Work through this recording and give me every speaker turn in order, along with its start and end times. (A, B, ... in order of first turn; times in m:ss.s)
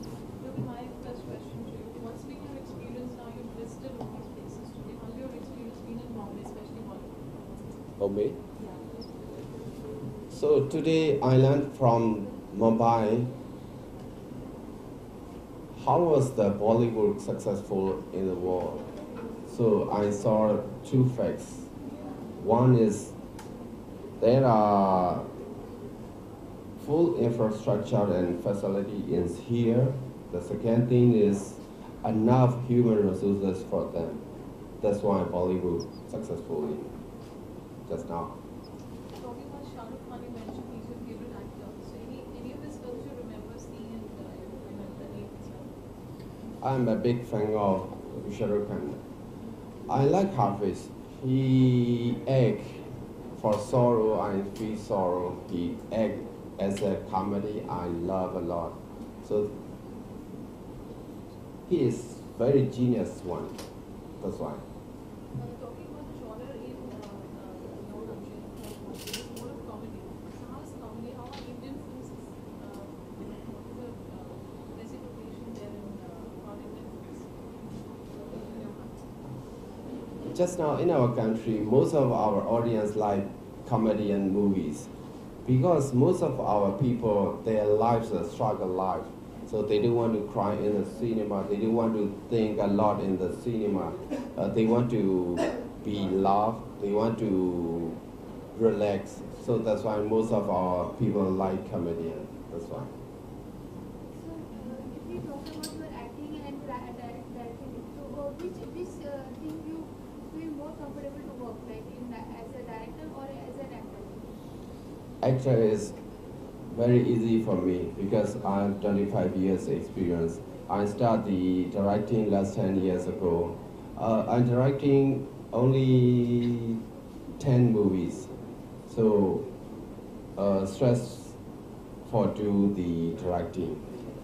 0:00.4-0:07.2 A
0:08.0-0:08.4 B
0:10.3-0:13.3 B
0:15.7-0:18.8 B
0:19.5-0:21.7 B
0:22.4-0:23.2 B
0:24.2-0:25.3 B
0:26.8-0:34.2 B
0:34.8-0:36.9 B
0:37.9-0:38.4 B
0:39.1-0:45.8 A
0:46.6-0:49.0 B
0:49.9-0:52.8 B
0:53.4-0:59.5 B
1:01.7-1:03.6 B
1:04.2-1:04.6 B
1:05.3-1:19.1 A
1:20.2-1:24.9 B
1:25.4-1:38.0 B
1:38.5-1:42.9 B
1:44.1-1:54.2 C
1:55.2-1:56.0 B
1:56.7-2:06.8 B
2:07.4-2:08.3 B
2:08.9-2:09.4 B
2:10.4-2:11.4 B
2:12.1-2:13.8 B